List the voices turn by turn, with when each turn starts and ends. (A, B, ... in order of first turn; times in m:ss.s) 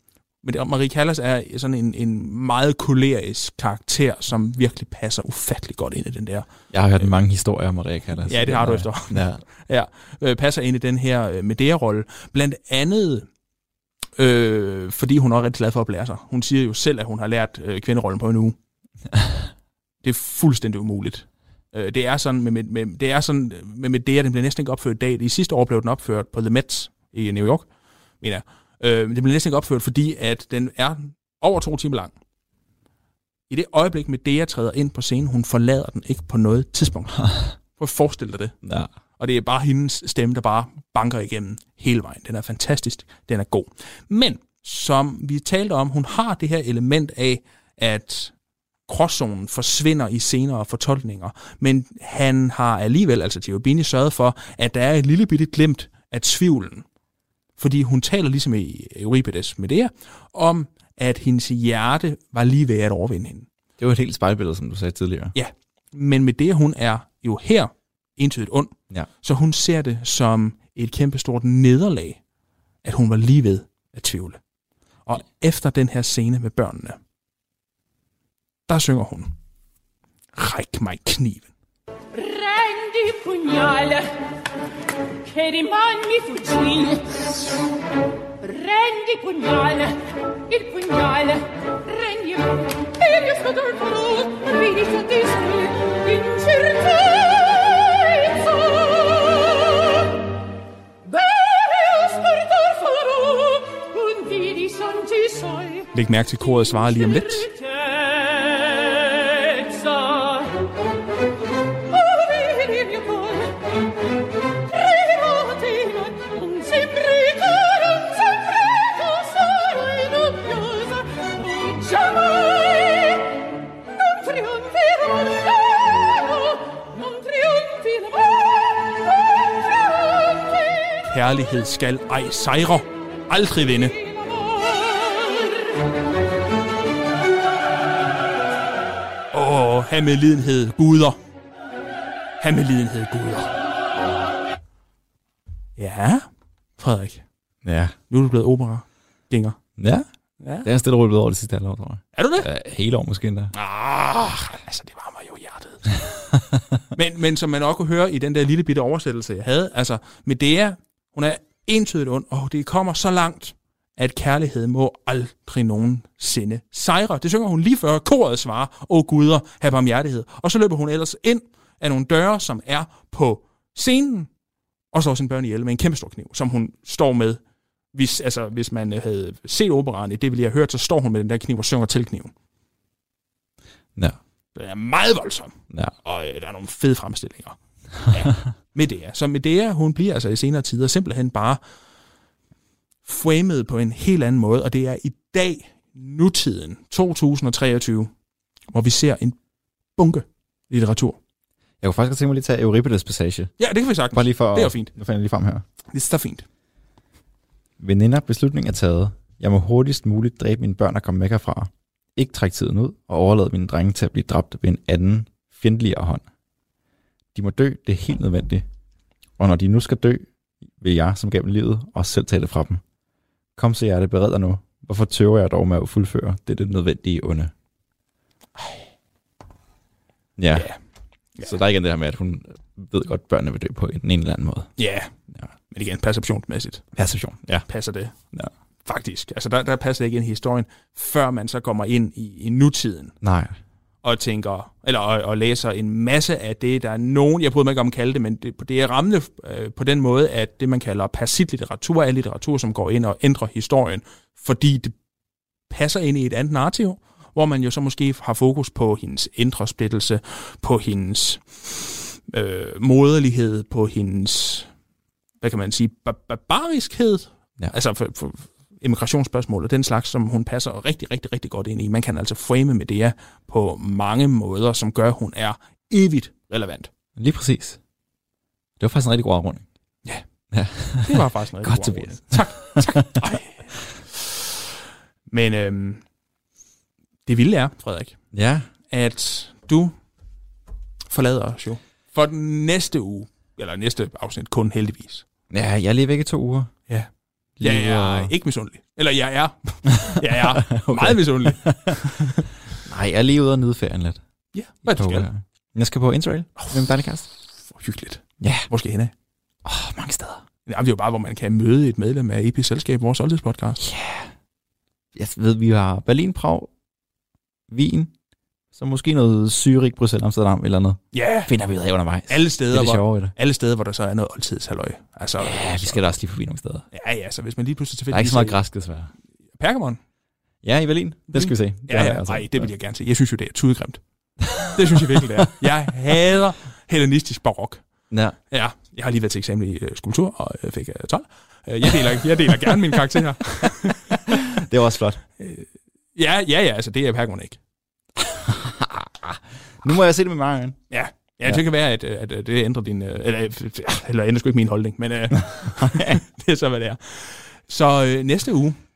0:00.4-0:07.1 A
0:06.7-0:09.4 B
0:08.3-0:13.3 A
0:14.2-0:18.6 A
0:19.1-0:19.5 B
0:20.0-0:27.7 A
0:28.2-0:32.1 A
0:33.5-0:38.6 A
0:38.6-0:38.9 B
0:39.2-0:48.3 A
0:48.9-0:56.8 A
0:57.6-1:03.5 A
1:03.8-1:05.3 B
1:05.3-1:12.2 A
1:12.8-1:14.4 A
1:15.0-1:17.0 A
1:18.7-1:19.3 A
1:20.4-1:21.5 A
1:22.1-1:24.1 C
1:25.2-1:27.6 C
1:28.4-1:30.0 C
1:30.5-1:40.3 C
1:41.0-1:45.9 C
1:45.9-1:47.5 A
1:46.8-1:50.7 C
1:51.9-1:53.9 C
1:54.6-2:10.8 C
2:11.0-2:13.9 A
2:14.0-2:15.6 C
2:19.3-2:21.2 A
2:22.4-2:23.5 A
2:25.8-2:26.2 A
2:26.8-2:27.2 A
2:27.6-2:27.9 B
2:28.1-2:29.6 A
2:29.8-2:30.0 B
2:30.4-2:30.7 A
2:30.6-2:33.5 B
2:32.1-2:32.5 A
2:33.5-2:35.9 A
2:36.9-2:54.3 A
2:54.9-2:57.4 A
2:57.9-3:02.3 A
3:04.5-3:11.6 A
3:13.0-3:18.1 A
3:18.7-3:19.4 A
3:20.0-3:21.2 A
3:21.8-3:23.5 B
3:23.6-3:24.9 A
3:24.1-3:25.6 B
3:25.9-3:26.4 A
3:27.8-3:36.2 B
3:37.3-3:38.6 B
3:39.4-3:42.8 B
3:43.6-3:47.5 B
3:50.4-3:50.7 B
3:50.5-3:50.8 A
3:51.4-3:54.7 B
3:54.8-3:55.1 A
3:55.7-3:56.8 A
3:57.0-3:57.6 B
3:57.7-3:58.1 A
3:58.8-4:03.1 A
4:03.2-4:03.6 B
4:04.0-4:14.9 A
4:15.7-4:24.7 A
4:25.4-4:36.9 A
4:37.2-4:37.8 B
4:38.8-4:39.6 B
4:40.5-4:43.2 B
4:41.0-4:44.2 A
4:45.3-4:46.0 A
4:47.2-4:48.2 A
4:48.3-4:48.7 B
4:48.9-4:49.9 A
4:51.1-4:55.2 A
4:55.5-4:56.7 B
4:57.6-4:58.3 B
4:57.6-5:02.4 A
5:00.0-5:02.2 B
5:02.8-5:04.2 B
5:04.5-5:05.3 A
5:04.9-5:07.3 B
5:06.6-5:06.9 A
5:07.6-5:09.1 A
5:08.4-5:08.7 B
5:09.6-5:10.4 B
5:10.7-5:13.8 A
5:13.8-5:14.3 B
5:15.1-5:16.7 B
5:17.7-5:18.1 B
5:18.7-5:23.3 B
5:21.1-5:21.5 A
5:22.3-5:26.0 A
5:25.4-5:26.8 B
5:26.9-5:28.6 A
5:28.1-5:29.1 B
5:29.6-5:30.0 A
5:30.6-5:32.7 B
5:31.3-5:34.0 A
5:34.4-5:35.7 B
5:34.6-5:37.8 A
5:38.1-5:38.4 B
5:38.5-5:44.3 A
5:44.1-5:45.2 B
5:45.4-5:47.6 A
5:48.2-5:50.8 B
5:50.9-5:58.8 A
5:55.7-5:56.2 B